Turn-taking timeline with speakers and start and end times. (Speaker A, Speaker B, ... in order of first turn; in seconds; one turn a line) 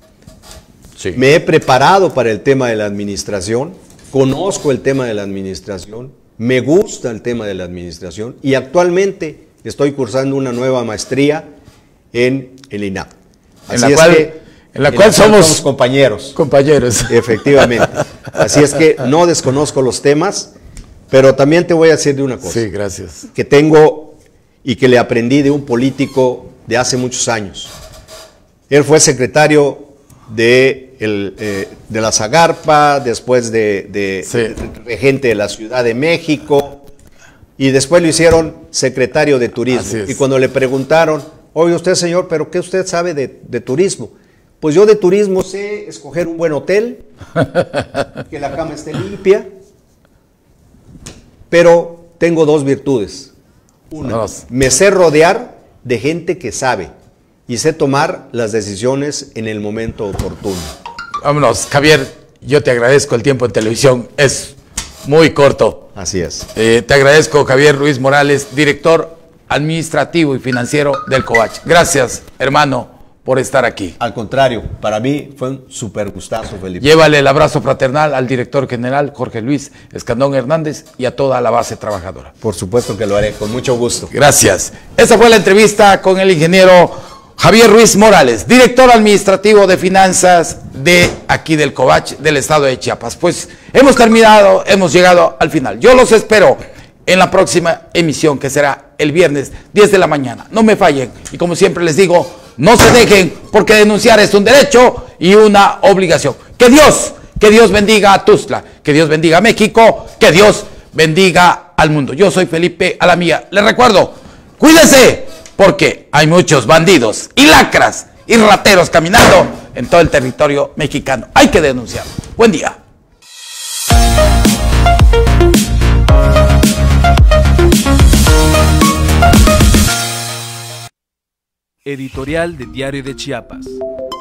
Speaker A: 1.1-11.5
Speaker A: 12.1-13.1
Speaker A: 13.7-14.3
Speaker B: 13.7-15.7
Speaker A: 14.9-16.4
Speaker B: 16.3-17.9
Speaker A: 17.1-20.5
Speaker A: 21.1-22.6
Speaker B: 22.4-23.3
Speaker A: 23.3-27.7
Speaker A: 28.7-36.8
Speaker B: 34.2-34.5
Speaker A: 37.6-47.1
Speaker B: 39.7-40.2
Speaker A: 48.3-49.5
Speaker A: 51.5-53.3
Speaker A: 53.9-56.9
Speaker B: 54.0-54.4
Speaker A: 57.5-60.7
Speaker B: 61.2-65.9
Speaker A: 65.9-66.5
Speaker B: 66.5-74.0
Speaker A: 74.0-76.9
Speaker B: 76.8-82.3
Speaker A: 82.4-84.1
Speaker B: 84.1-122.8
Speaker C: 131.8-133.8